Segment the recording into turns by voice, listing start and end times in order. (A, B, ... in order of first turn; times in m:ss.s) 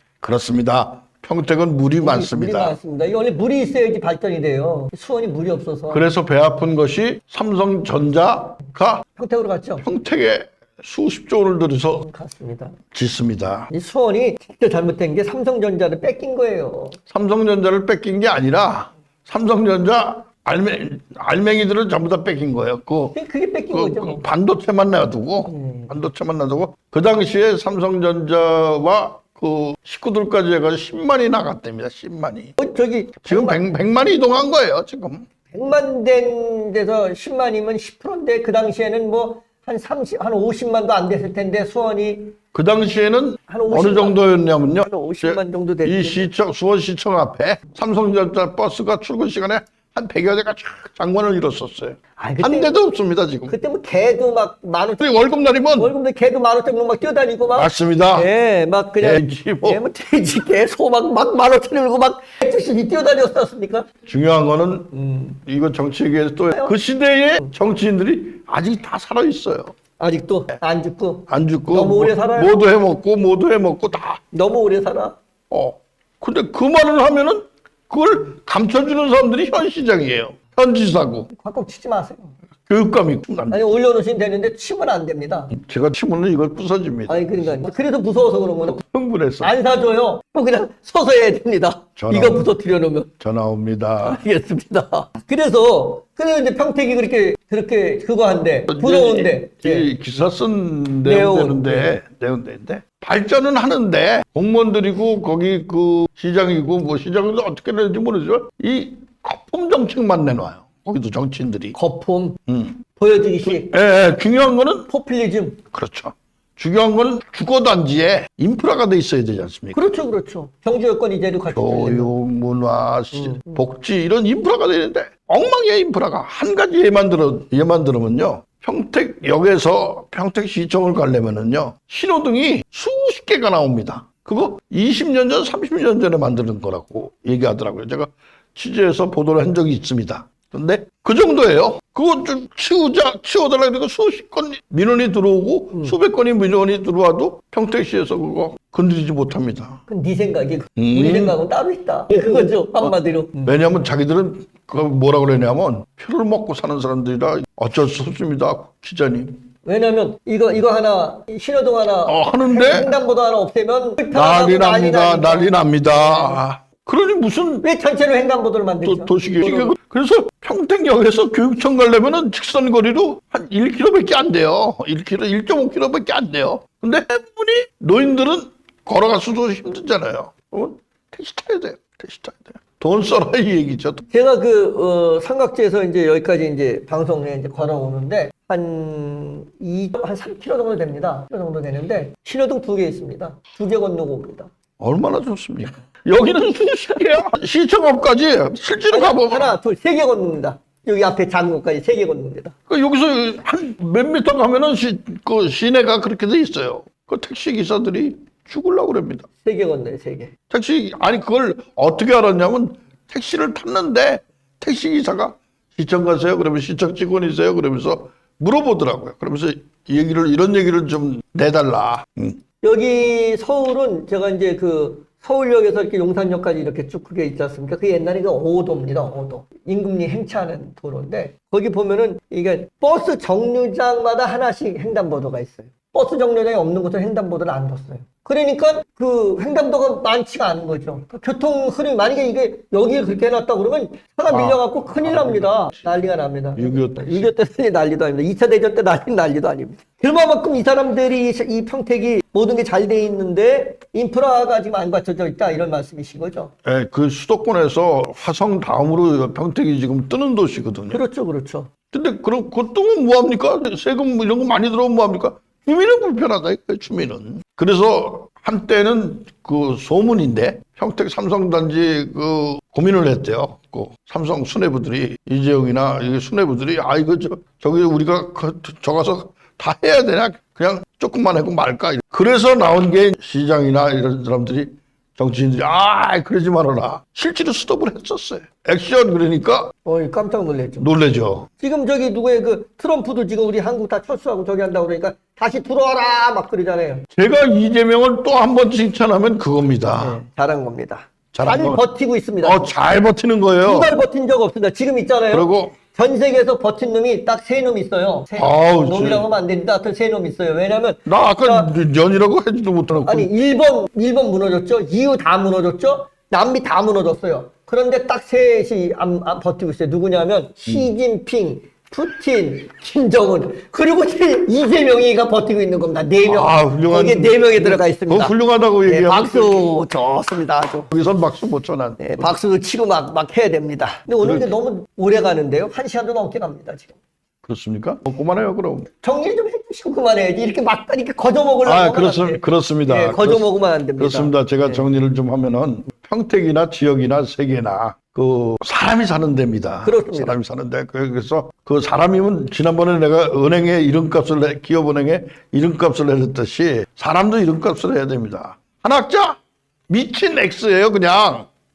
0:00.2-0:02.8 A
0:02.0-0:06.0 B
0:05.9-0:09.1 A
0:09.2-0:09.8 B
0:09.8-0:12.0 A
0:12.0-0:12.7 B
0:12.9-0:13.7 A
0:13.7-0:17.0 B
0:17.1-0:23.2 A
0:23.1-0:24.2 B
0:23.7-0:32.6 A
0:25.4-0:25.9 B
0:32.6-0:33.6 B
0:33.2-0:35.2 A
0:35.5-0:42.4 B
0:42.5-0:53.6 A
0:43.5-0:44.2 B
0:44.8-0:46.3 B
0:52.2-0:52.8 B
0:53.5-1:03.9 B
0:55.0-0:55.9 A
0:57.5-0:58.3 A
0:59.0-0:59.8 A
1:04.1-1:04.9 A
1:04.9-1:05.4 B
1:05.4-1:09.7 A
1:10.0-1:12.5 B
1:11.3-1:14.2 A
1:14.3-1:15.2 B
1:15.5-1:21.3 A
1:21.3-1:22.3 B
1:22.7-1:23.6 A
1:23.5-1:25.5 B
1:25.5-1:27.6 A
1:27.1-1:28.8 B
1:28.6-1:29.5 A
1:29.4-1:33.1 B
1:32.0-1:32.4 A
1:33.2-1:34.2 A
1:34.0-1:39.9 B
1:38.7-1:51.8 A
1:41.0-1:41.9 B
1:51.7-1:52.4 B
1:52.5-1:52.8 A
1:53.0-1:53.7 B
1:53.4-1:54.9 A
1:54.9-1:55.6 B
1:55.7-2:00.0 A
1:59.7-2:02.1 B
2:01.5-2:29.8 A
2:03.1-2:03.6 B
2:29.9-2:33.6 B
2:30.8-2:31.4 A
2:33.4-2:39.4 A
2:39.6-2:46.4 B
2:42.0-2:42.9 A
2:44.1-2:47.6 A
2:47.6-2:49.7 B
2:48.8-3:04.0 A
3:04.1-3:14.5 B
3:14.8-3:19.5 A
3:18.9-3:22.6 B
3:22.7-3:29.3 A
3:29.4-3:30.3 B
3:30.5-3:42.4 A
3:42.6-4:16.5 B
4:04.3-4:05.9 A
4:06.6-4:07.3 A
4:16.6-4:21.0 A
4:20.9-4:21.7 B
4:21.9-4:49.7 A
4:49.9-4:50.9 B
4:50.8-4:51.5 A
4:51.6-4:57.1 B
4:57.1-5:00.2 A
5:00.0-5:02.7 B
5:01.3-5:01.8 A
5:02.4-5:03.9 A
5:03.6-5:11.7 B
5:05.3-5:05.8 A
5:08.4-5:09.2 A
5:11.1-5:13.3 A
5:13.1-5:28.3 B
5:26.2-5:29.7 A
5:28.9-5:30.9 B
5:30.9-5:32.3 A
5:32.0-5:37.0 B
5:34.2-5:34.5 A
5:37.4-5:38.9 A
5:39.0-5:44.8 B
5:41.6-6:01.5 A
5:49.8-5:50.4 B